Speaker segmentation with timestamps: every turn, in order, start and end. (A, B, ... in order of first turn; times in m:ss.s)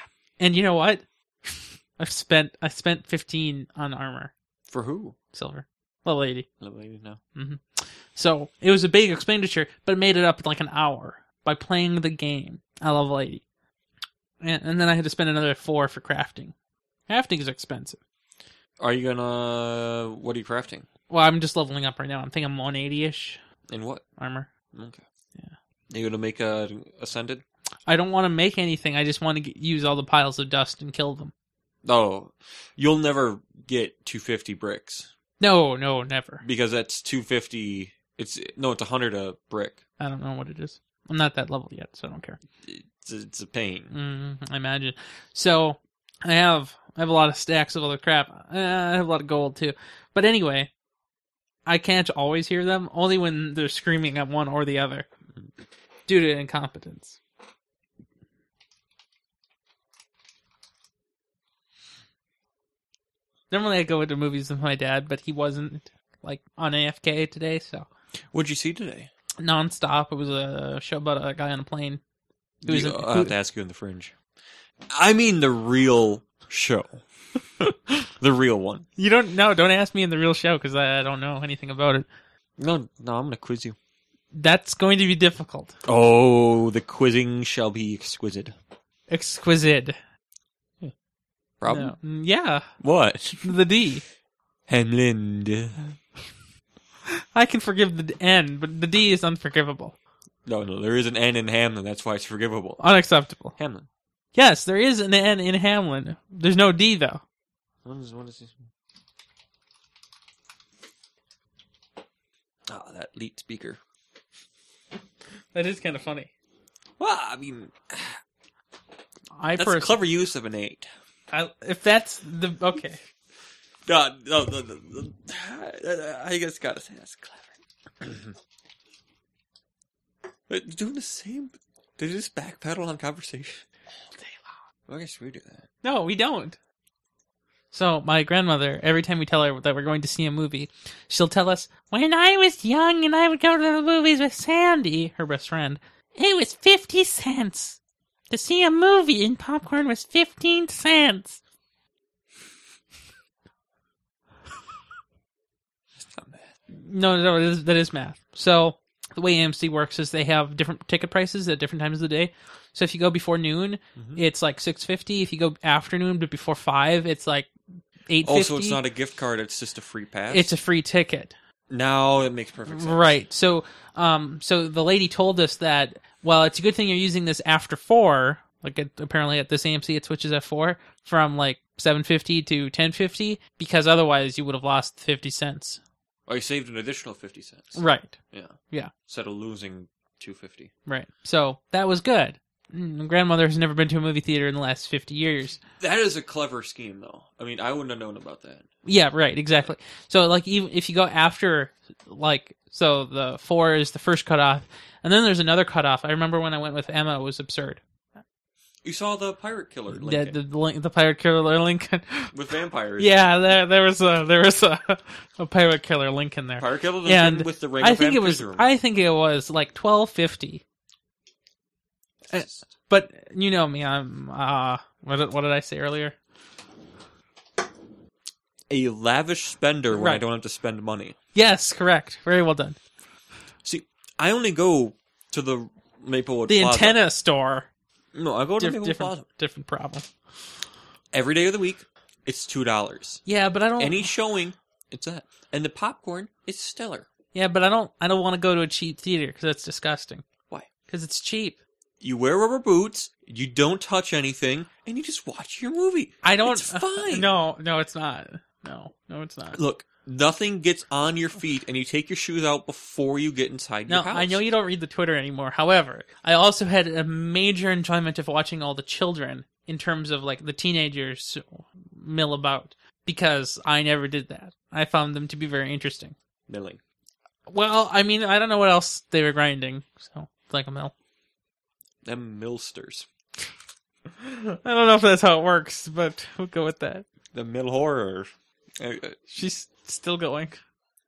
0:00.4-0:04.3 A
0:04.7-0:05.2 B
0:05.3-0:06.5 A
0:06.6-0:07.2 B
0:07.3-0:13.4 A
0:14.4-0:16.5 A
0:17.1-0:18.0 A
0:18.8-0:20.8 B
0:21.1-0:23.4 A
0:23.7-0:24.0 B
0:24.2-0:24.5 A
0:24.7-0:25.0 B
0:25.9-0:27.4 B
0:27.9-0:31.3 A
0:31.8-0:35.1 B
0:35.4-0:36.4 A
0:36.4-0:39.8 B
0:40.0-0:42.4 A
0:42.6-0:43.9 B
0:43.9-0:50.7 A
0:51.6-0:55.1 A
0:56.1-0:57.2 A
1:03.5-1:07.9 A
1:08.3-1:09.1 B
1:09.4-1:12.0 A
1:12.6-1:14.1 B
1:12.7-1:13.3 A
1:14.9-1:17.0 B
1:18.2-1:18.9 B
1:19.0-1:22.1 A
1:22.6-1:23.8 B
1:24.3-1:25.8 A
1:25.8-1:28.5 B
1:29.1-1:30.0 A
1:31.6-1:32.0 B
1:31.7-1:32.6 A
1:32.8-1:33.5 B
1:33.4-1:34.0 A
1:34.7-1:35.8 B
1:37.3-1:39.9 A
1:40.4-1:42.8 B
1:42.8-1:43.6 A
1:43.6-1:43.9 B
1:44.3-1:47.2 A
1:47.8-1:48.7 B
1:52.7-1:53.8 B
1:55.5-1:56.3 A
1:57.0-1:58.2 B
1:59.3-2:00.0 A
1:59.6-2:00.9 B
2:01.3-2:03.0 A
2:03.8-2:08.3 B
2:10.5-2:13.6 B
2:14.9-2:15.7 B
2:15.8-2:16.6 A
2:17.7-2:27.8 A
2:28.3-2:31.4 A
2:36.0-2:36.5 B
2:36.7-2:47.5 A
2:44.0-2:44.2 B
2:48.1-2:48.8 A
2:48.2-2:50.5 B
2:50.3-2:51.3 A
2:51.7-2:53.2 B
2:52.7-3:05.8 A
3:06.3-3:10.7 B
3:07.8-3:08.2 A
3:10.8-3:15.6 A
3:15.8-3:18.6 B
3:18.8-3:27.8 A
3:28.8-3:30.4 B
3:29.9-3:32.3 A
3:32.3-3:33.3 B
3:33.0-3:40.6 A
3:36.6-3:38.7 B
3:42.2-3:42.7 B
3:42.3-3:46.2 A
3:48.7-3:51.2 B
3:49.9-3:50.2 A
3:51.3-3:52.8 A
3:53.6-3:57.0 B
3:56.5-3:57.7 A
3:58.1-3:59.2 B
3:58.6-4:00.1 A
4:01.1-4:03.2 B
4:03.2-4:04.1 A
4:03.8-4:07.1 B
4:07.3-4:10.2 A
4:10.9-4:11.6 A
4:12.0-4:17.3 B
4:16.2-4:19.6 A
4:19.5-4:24.4 B
4:23.9-4:36.1 A
4:36.5-4:36.8 B
4:37.5-4:40.9 A
4:42.0-4:43.0 B
4:44.2-4:47.0 A
4:47.3-4:49.2 B
4:49.3-4:50.6 A